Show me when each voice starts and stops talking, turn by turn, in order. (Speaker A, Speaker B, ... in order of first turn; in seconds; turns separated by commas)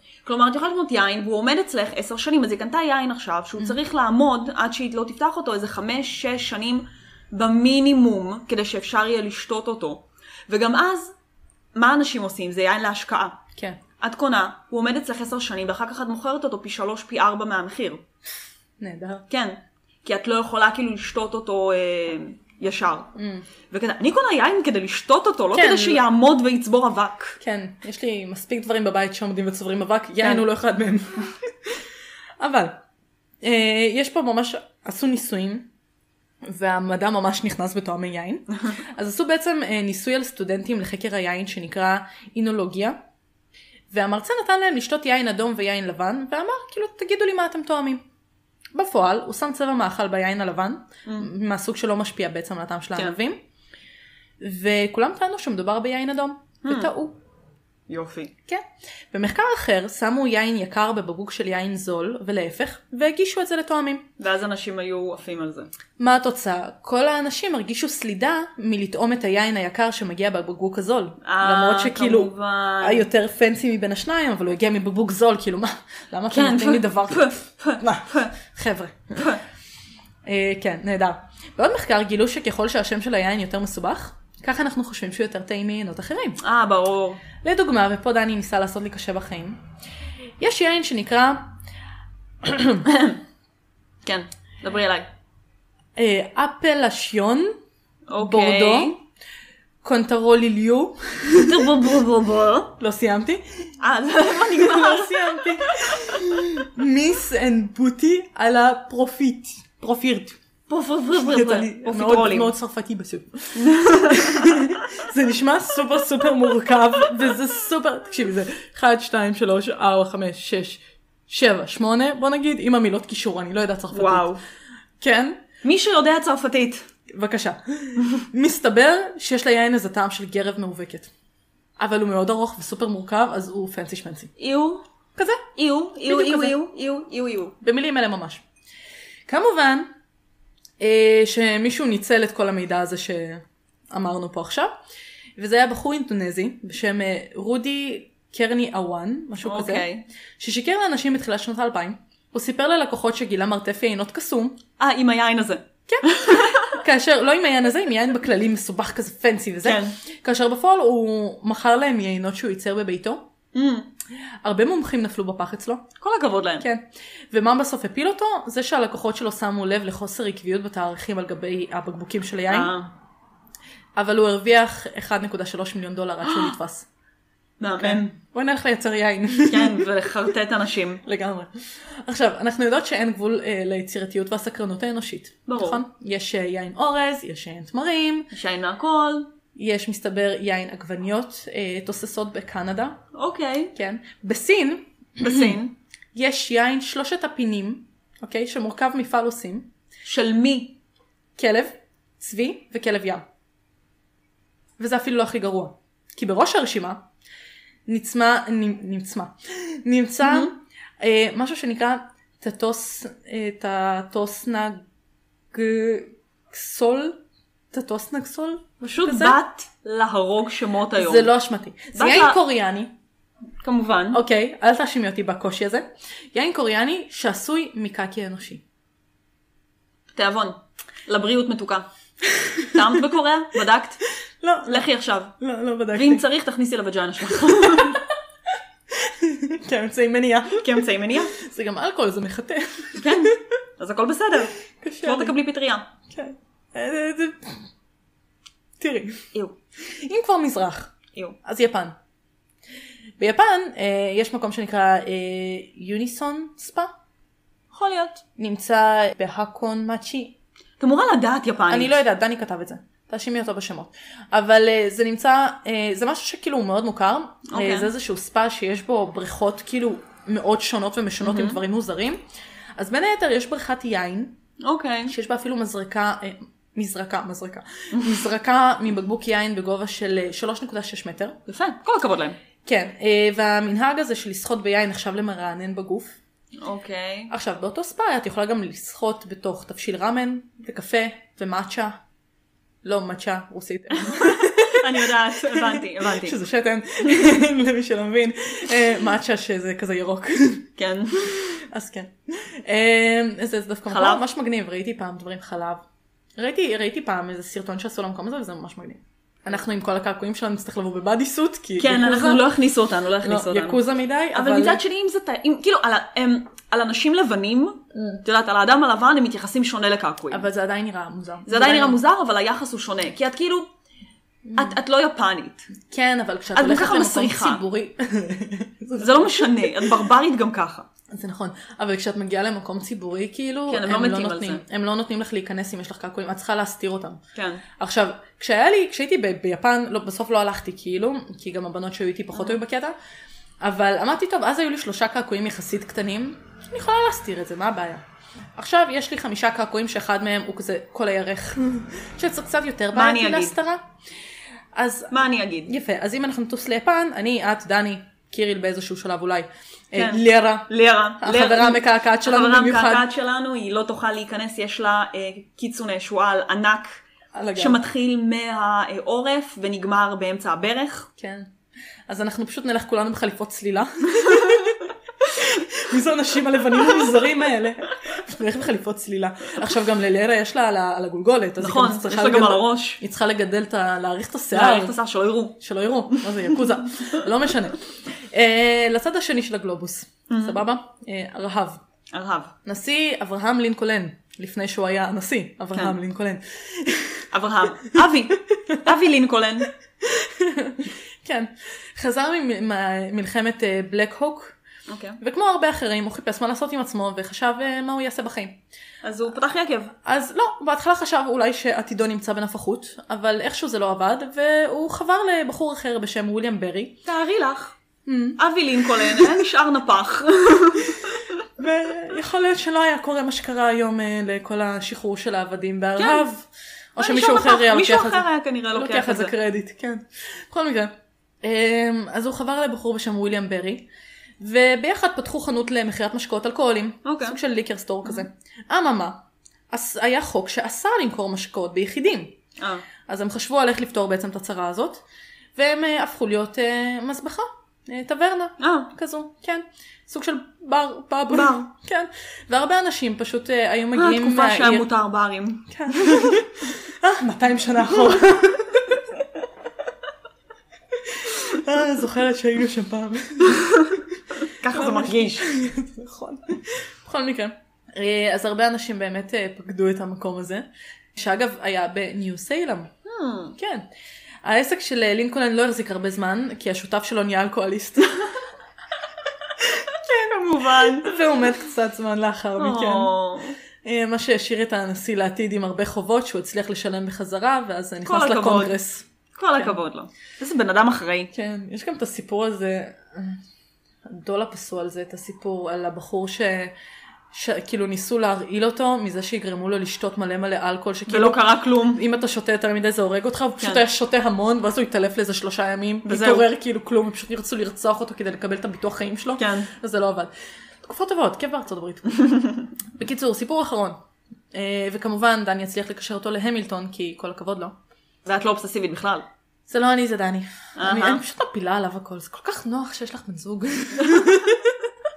Speaker A: 0.2-11.1, Speaker A: 11.7-13.4, Speaker A: 14.0-18.0, Speaker B: 18.8-19.2, Speaker A: 19.3-23.1, Speaker B: 23.1-23.5, Speaker A: 23.7-27.4, Speaker B: 25.5-26.0, Speaker B: 27.4-31.8, Speaker B: 32.4-32.8, Speaker B: 33.4-35.7, Speaker B: 36.4-43.0, Speaker B: 43.9-48.0, Speaker B: 48.7-53.4, Speaker B: 54.4-57.2, Speaker A: 56.6-56.9, Speaker A: 57.9-58.3, Speaker B: 58.5-64.0, Speaker A: 64.2-65.7, Speaker B: 66.0-79.4, Speaker A: 71.2-73.0, Speaker A: 76.3-78.3, Speaker A: 79.2-79.4, Speaker B: 80.2-86.4, Speaker A: 86.4-87.2, Speaker B: 87.4-89.6, Speaker B: 90.4-91.5, Speaker B: 92.4-92.9, Speaker A: 92.8-93.2, Speaker A: 94.0-95.1, Speaker B: 96.0-97.5, Speaker A: 98.1-99.0, Speaker B: 98.2-99.0, Speaker B: 99.8-102.0, Speaker A: 101.3-102.7, Speaker B: 102.8-103.7, Speaker A: 103.8-106.2, Speaker B: 104.5-110.4, Speaker A: 110.7-112.5, Speaker B: 111.1-124.3, Speaker A: 113.5-114.7, Speaker A: 123.9-124.4, Speaker B: 125.0-125.4, Speaker A: 125.6-126.9, Speaker B: 127.1-131.1, Speaker B: 131.8-134.3, Speaker A: 134.4-134.8, Speaker B: 135.2-135.4, Speaker A: 135.6-137.5, Speaker B: 136.0-136.6, Speaker B: 137.6-138.4, Speaker B: 139.3-139.9, Speaker B: 140.8-144.7, Speaker B: 145.4-154.6, Speaker A: 149.4-150.1, Speaker A: 154.8-156.8, Speaker B: 155.9-163.2, Speaker A: 159.6-160.0, Speaker A: 163.5-163.9, Speaker B: 164.4-165.8, Speaker A: 166.0-166.6, Speaker B: 166.6-172.7, Speaker A: 172.5-172.9, Speaker B: 173.9-176.9, Speaker A: 176.2-176.5, Speaker A: 177.6-178.1, Speaker B: 177.8-179.9, Speaker A: 179.5-181.0, Speaker B: 181.0-188.3, Speaker A: 185.5-185.8, Speaker A: 188.3-189.3, Speaker B: 189.5-193.0, Speaker A: 193.1-193.7, Speaker B: 193.7-195.6, Speaker A: 195.2-195.7, Speaker B: 196.1-199.7, Speaker A: 200.0-200.8, Speaker B: 201.4-203.2, Speaker B: 204.8-207.0, Speaker B: 207.9-214.8, Speaker A: 210.2-210.5, Speaker B: 215.5-217.2, Speaker B: 217.7-219.4, Speaker A: 218.9-221.3, Speaker B: 220.9-222.9, Speaker A: 221.9-222.4, Speaker A: 223.6-224.2, Speaker B: 224.1-228.6, Speaker A: 230.1-231.8, Speaker B: 232.2-232.9, Speaker A: 232.7-234.0, Speaker B: 234.4-236.2, Speaker A: 234.7-235.3, Speaker A: 235.9-238.0, Speaker B: 237.6-238.0, Speaker B: 238.9-243.4, Speaker A: 240.6-241.3, Speaker A: 243.0-245.9, Speaker B: 244.8-245.3, Speaker B: 246.1-247.7, Speaker B: 248.8-249.3, Speaker B: 249.8-252.0, Speaker B: 253.2-256.9, Speaker A: 257.7-258.2, Speaker B: 258.4-260.3, Speaker A: 260.8-262.0, Speaker B: 261.7-272.2, Speaker A: 267.5-267.9, Speaker A: 271.2-271.6, Speaker B: 272.8-274.4, Speaker A: 274.6-275.1, Speaker B: 275.1-281.4, Speaker A: 277.9-278.2, Speaker A: 281.5-282.4, Speaker B: 282.6-286.1, Speaker A: 286.6-287.3, Speaker B: 287.3-292.0, Speaker B: 292.8-300.7, Speaker A: 293.9-296.4, Speaker A: 300.8-301.4, Speaker B: 301.2-305.8, Speaker A: 303.9-304.2, Speaker B: 306.4-312.5, Speaker A: 311.8-313.8, Speaker B: 313.2-314.8, Speaker A: 314.3-320.4, Speaker B: 320.3-322.0, Speaker A: 321.5-323.7, Speaker B: 324.4-324.8, Speaker A: 324.5-325.7, Speaker B: 325.9-330.0, Speaker A: 326.6-327.6, Speaker A: 329.0-330.9, Speaker B: 331.1-337.2, Speaker A: 333.7-334.6, Speaker A: 337.4-337.6, Speaker B: 337.8-342.9, Speaker A: 342.3-342.6, Speaker B: 343.6-348.0, Speaker B: 348.6-353.8, Speaker A: 352.9-353.5, Speaker B: 354.7-360.7, Speaker A: 355.1-355.7, Speaker A: 359.9-367.0, Speaker B: 361.2-363.1, Speaker B: 367.3-367.8, Speaker A: 367.6-371.1, Speaker B: 371.2-371.5, Speaker B: 372.1-385.0, Speaker A: 381.6-383.0, Speaker A: 384.5-385.6, Speaker B: 385.6-391.8, Speaker A: 390.3-390.6, Speaker A: 392.1-392.5, Speaker B: 392.6-397.3, Speaker A: 397.3-399.7, Speaker B: 400.0-404.5, Speaker A: 404.9-405.2, Speaker B: 405.2-408.6, Speaker A: 409.0-409.9, Speaker B: 410.0-417.0, Speaker A: 417.0-417.7, Speaker B: 418.1-419.4, Speaker A: 418.4-421.4, Speaker B: 421.6-433.9, Speaker A: 426.0-426.2, Speaker A: 427.0-429.3, Speaker B: 434.4-442.4, Speaker A: 437.0-437.4, Speaker A: 442.6-442.9, Speaker B: 443.1-445.0, Speaker B: 445.6-454.9, Speaker A: 448.6-448.9, Speaker A: 451.3-451.7, Speaker A: 453.9-456.4, Speaker B: 455.7-459.0, Speaker B: 460.9-464.0, Speaker A: 463.4-465.5, Speaker B: 464.7-472.9, Speaker A: 473.0-473.6, Speaker B: 473.6-473.9, Speaker B: 474.4-478.3, Speaker B: 479.6-483.1, Speaker A: 480.1-481.2, Speaker A: 482.6-483.6, Speaker B: 483.8-489.1, Speaker A: 488.0-488.8, Speaker A: 489.3-491.3, Speaker B: 491.3-493.4, Speaker B: 494.1-496.7, Speaker B: 497.3-501.4, Speaker A: 501.1-502.0, Speaker B: 501.9-510.3, Speaker A: 506.0-506.5, Speaker A: 509.4-509.7, Speaker B: 510.8-514.0, Speaker B: 514.5-517.7, Speaker A: 518.2-519.2, Speaker B: 519.7-524.9, Speaker A: 520.8-521.2, Speaker A: 524.0-524.4